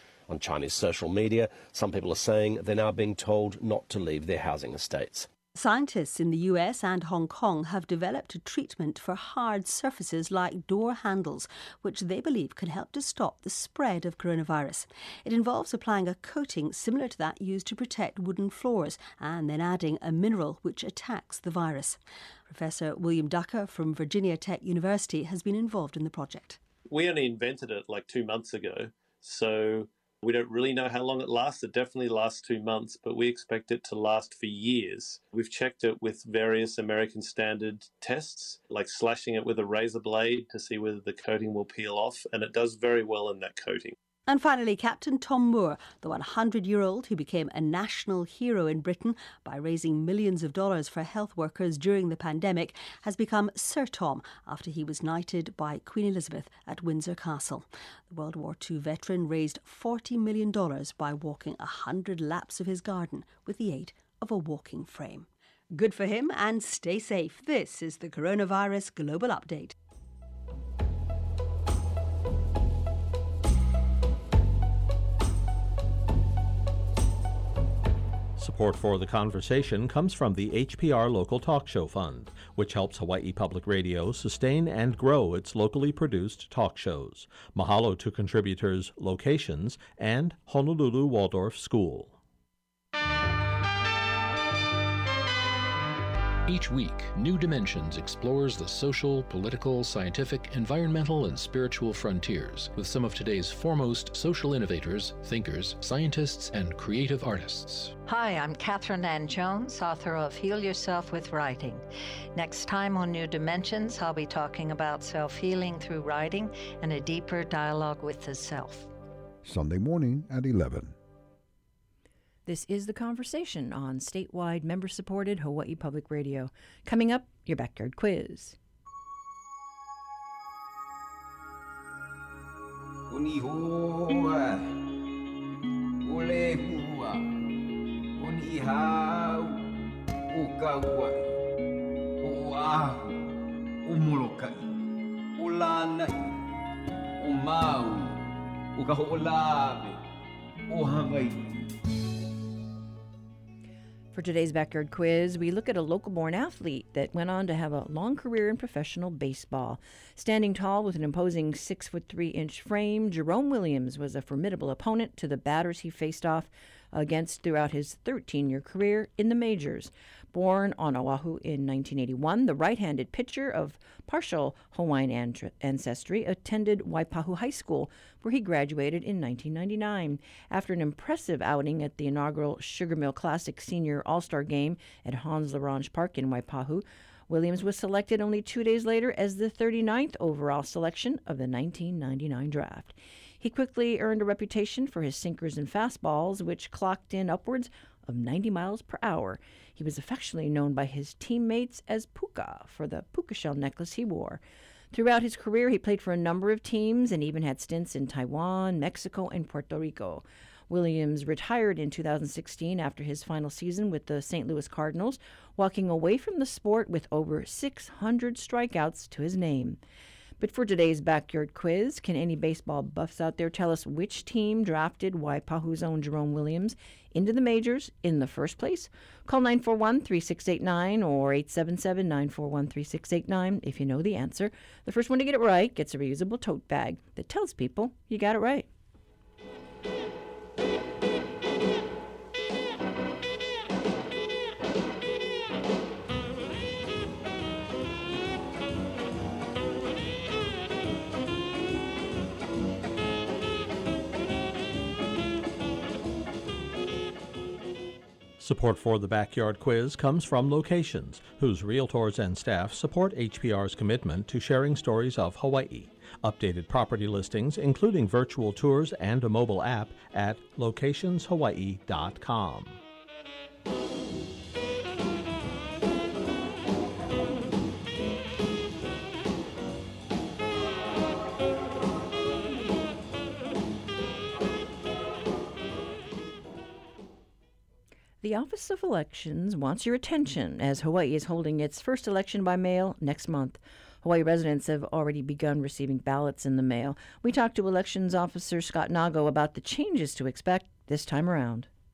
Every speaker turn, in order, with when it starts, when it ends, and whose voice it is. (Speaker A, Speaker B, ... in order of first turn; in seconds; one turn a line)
Speaker A: 0.4-0.8
Speaker A: 3.5-3.9
Speaker B: 5.5-26.6
Speaker C: 26.9-44.0
Speaker B: 44.3-69.7
Speaker D: 78.4-92.2
Speaker E: 96.5-108.0
Speaker F: 108.1-111.8
Speaker F: 112.3-118.9
Speaker G: 122.5-128.6
Speaker A: 133.1-134.8
Speaker A: 136.0-137.3
Speaker A: 138.2-139.7
Speaker A: 140.3-141.3
Speaker A: 142.2-143.3
Speaker A: 143.8-144.8
Speaker A: 145.4-146.3
Speaker A: 147.2-150.0
Speaker A: 150.7-151.5
Speaker G: 154.1-204.4
Speaker G: 204.9-219.8
Speaker G: 220.4-238.7
Speaker D: 258.4-272.8
Speaker G: 288.2-301.7